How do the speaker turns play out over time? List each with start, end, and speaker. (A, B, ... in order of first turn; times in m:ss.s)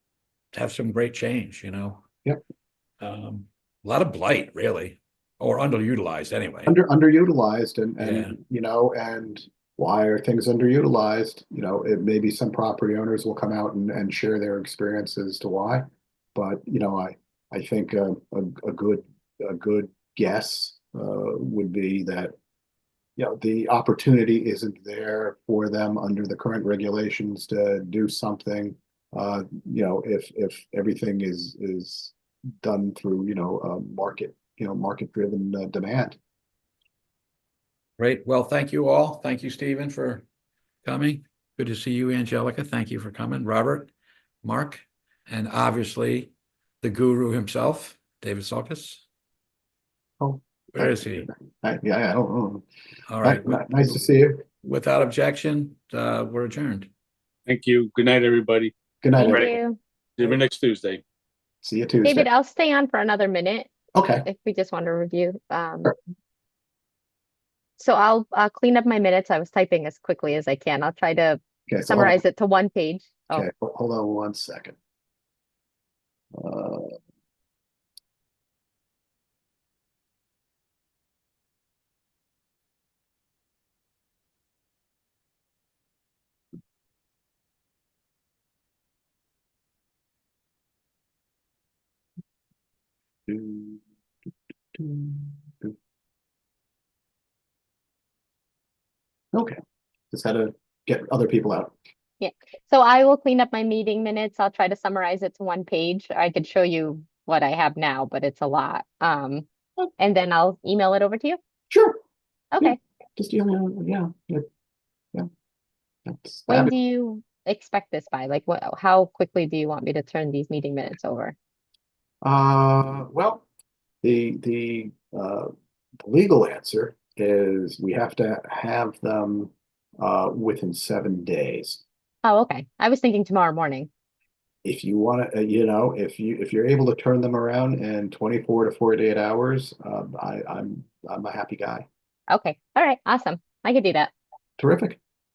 0:00.5-0:02.0 A
0:03.0-0:06.7 A
0:06.6-0:22.3 B
0:08.0-0:08.4 A
0:23.2-0:36.2 B
0:38.0-0:40.2 A
0:40.8-0:43.9 A
0:44.4-0:46.3 A
0:46.8-0:49.0 A
0:50.2-0:52.6 B
0:50.7-0:51.3 A
0:53.1-0:53.9 A
0:53.2-0:54.4 B
0:54.6-0:56.9 A
0:57.5-0:58.7 C
0:59.0-0:59.5 B
0:59.2-0:59.8 D
0:59.2-0:59.5 C
1:00.2-1:01.0 C
1:01.6-1:02.3 B
1:02.0-1:03.7 D
1:03.9-1:04.3 B
1:04.2-1:05.9 D
1:07.8-1:13.4 D
1:11.7-1:12.2 B
1:13.3-1:14.7 B
1:16.3-1:16.9 B
1:33.3-1:33.8 B
1:34.7-1:35.7 B
1:39.3-1:39.6 B
1:40.1-1:41.7 B
1:42.2-1:49.4 D
1:50.0-1:51.4 D
1:51.7-1:52.0 B
1:52.6-1:54.4 B
1:56.0-1:56.7 B
1:56.5-2:01.3 D
2:02.2-2:03.4 B
2:04.0-2:05.5 B
2:06.0-2:11.8 B
2:12.2-2:13.9 D
2:14.6-2:21.8 B
2:22.3-2:24.1 D
2:24.6-2:25.0 B